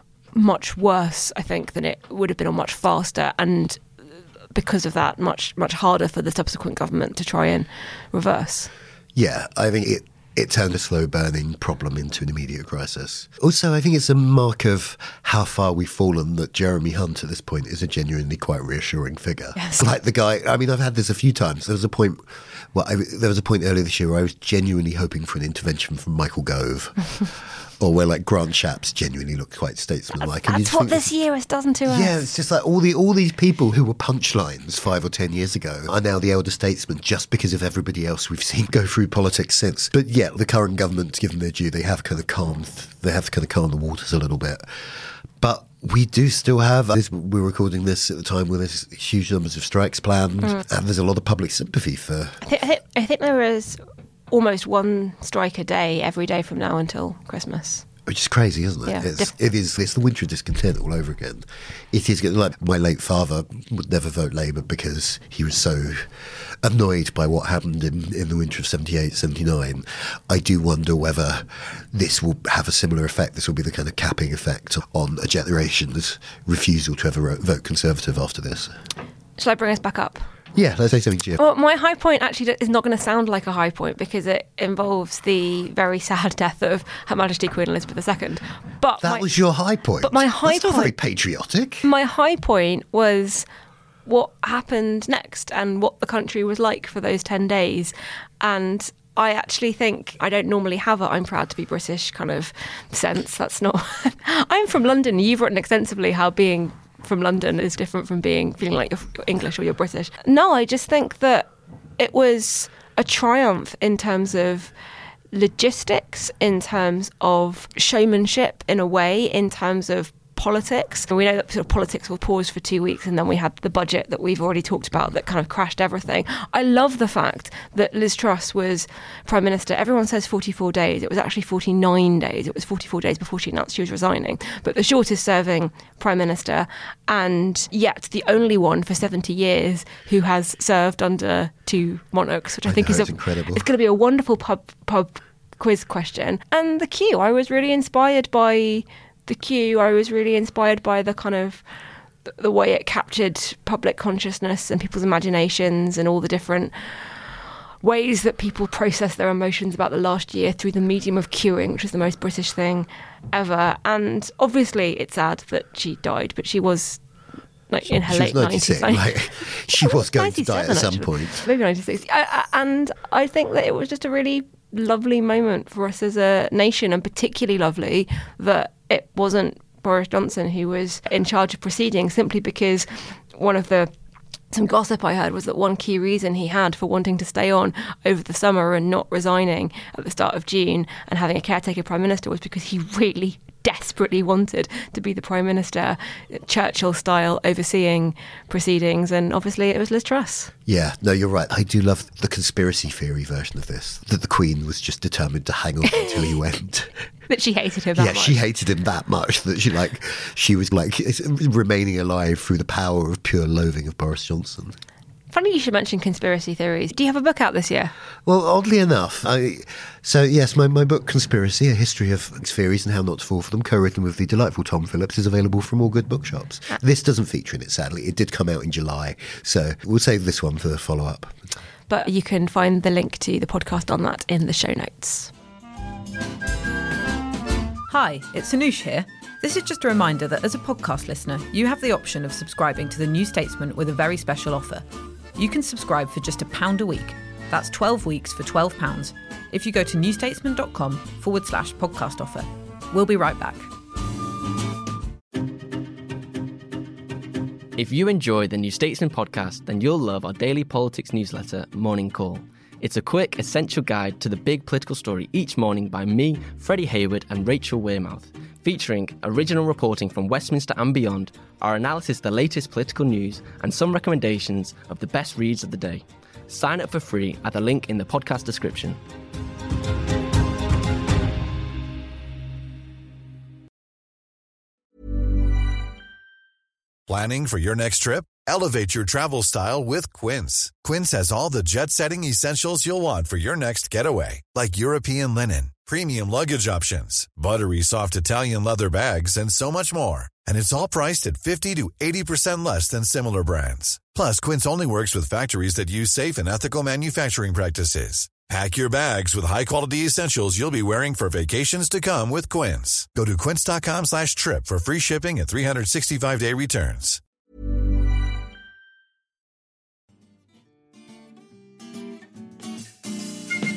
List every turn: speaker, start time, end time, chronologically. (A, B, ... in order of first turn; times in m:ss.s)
0:00.3-0:03.8 A
0:04.5-0:08.7 A
0:09.2-0:22.2 B
0:19.6-0:19.9 A
0:22.7-0:27.0 B
0:27.8-0:31.1 B
0:30.2-0:32.2 A
0:31.9-0:44.6 B
0:45.4-0:52.4 B
0:52.4-0:53.8 A
0:54.3-0:57.8 A
0:58.1-1:06.1 B
0:58.9-0:59.3 A
1:06.6-1:18.7 B
1:19.4-1:20.3 A
1:20.6-1:21.4 B
1:21.4-1:29.3 A
1:29.0-1:31.9 B
1:30.0-1:30.9 A
1:31.8-1:33.5 A
1:34.1-1:54.7 A
1:55.3-2:31.6 A
2:22.6-2:23.6 B
2:32.3-2:37.1 A
2:37.8-2:47.0 A
2:47.7-2:49.2 A
2:47.9-2:51.4 B
2:49.7-3:03.9 A
3:04.5-3:20.5 A
3:20.7-3:26.9 B
3:27.3-3:28.4 A
3:28.0-3:34.8 B
3:35.3-3:37.9 A
3:38.3-3:51.4 B
3:51.9-3:55.3 A
3:57.9-4:04.8 C
4:05.4-4:13.7 C
4:17.8-4:39.0 D
4:47.1-5:17.2 E